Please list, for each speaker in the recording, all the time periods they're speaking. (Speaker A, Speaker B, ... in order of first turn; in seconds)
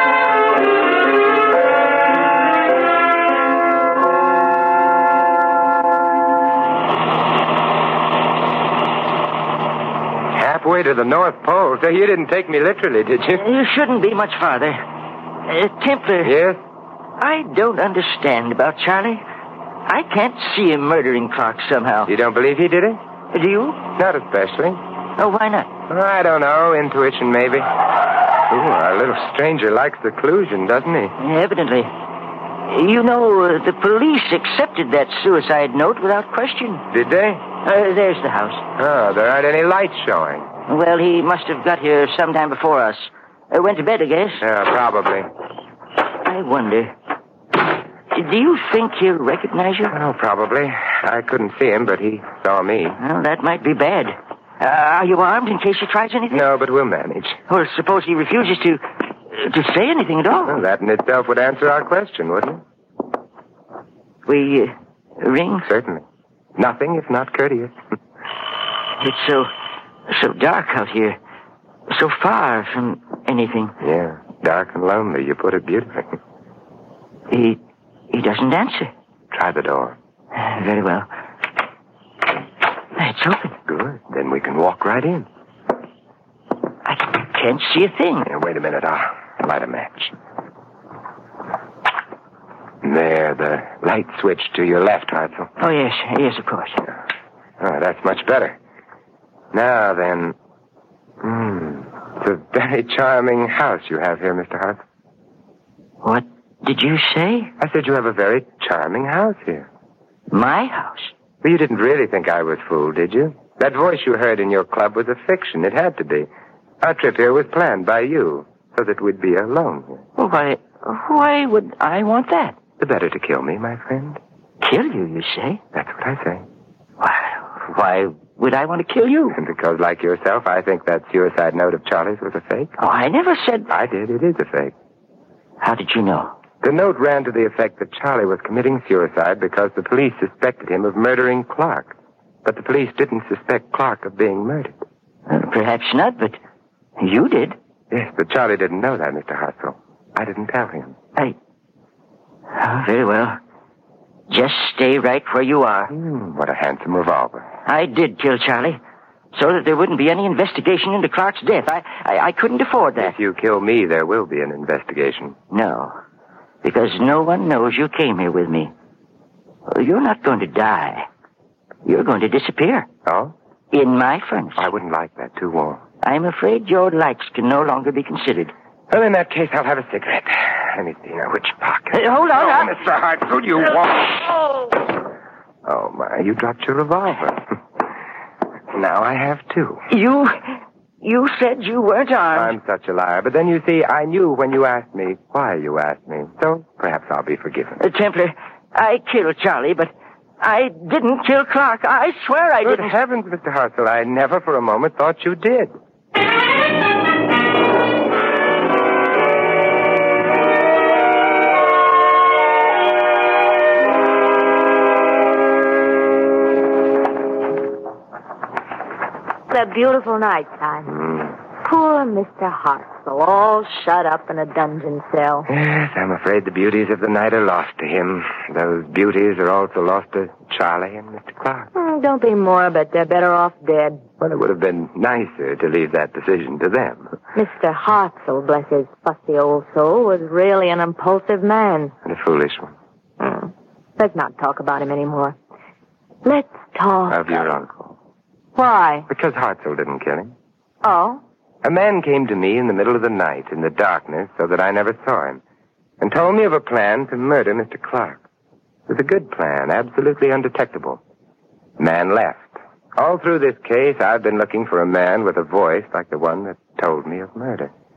Speaker A: 10.3-13.4, 16.2-16.6, 22.1-23.0, 23.9-24.8, 25.9-27.7, 28.5-31.1, 36.9-37.5, 38.8-40.5, 44.4-45.3, 49.9-53.0, 56.3-57.4, 60.4-62.6, 65.6-66.0, 66.6-67.8, 73.8-76.1, 79.3-80.0, 83.7-85.3, 88.2-90.1, 92.8-95.5, 97.6-98.6, 99.5-100.3, 101.2-104.8, 107.6-109.7, 111.4-116.3, 116.8-120.0, 122.8-124.2, 125.7-126.4, 129.3-132.8, 133.7-134.7, 136.6-144.8, 147.9-150.9, 155.9-157.5, 163.0-165.4, 173.0-173.3, 174.6-175.8, 178.9-184.3, 185.6-187.5, 188.7-189.8, 192.3-197.8, 202.6-205.7, 220.9-221.3, 225.5-231.7, 234.2-237.1, 242.0-242.7, 247.1-247.9, 249.1-250.3, 251.6-255.4, 256.0-258.2, 258.9-261.0, 261.8-267.7
Speaker B: 13.3-14.8, 15.5-16.3, 17.2-19.2, 19.9-22.1, 23.3-23.8, 25.2-25.7, 31.2-31.9, 32.7-36.8, 37.6-38.6, 40.7-44.4, 46.2-46.9, 48.1-49.9, 53.0-56.5, 57.5-60.6, 64.2-65.7, 69.0-69.5, 70.1-71.2, 71.9-73.7, 77.3-77.6, 78.1-78.9, 80.3-81.1, 83.0-83.6, 86.8-88.3, 95.6-96.8, 106.0-107.5, 110.3-111.1, 120.2-122.6, 124.6-125.6, 127.0-129.3, 132.8-133.7, 135.6-136.3, 145.3-146.4, 147.0-147.6, 152.5-153.4, 154.3-155.9, 157.6-158.8, 159.3-163.1, 165.5-165.9, 166.6-168.7, 169.7-171.1, 171.8-172.9, 173.7-174.7, 176.0-178.5, 181.9-182.7, 189.9-192.5, 197.8-202.9
Speaker C: 219.5-220.9, 221.6-225.5, 231.7-234.0, 237.3-241.9, 243.2-245.3, 246.2-247.5, 248.5-249.1, 250.8-251.2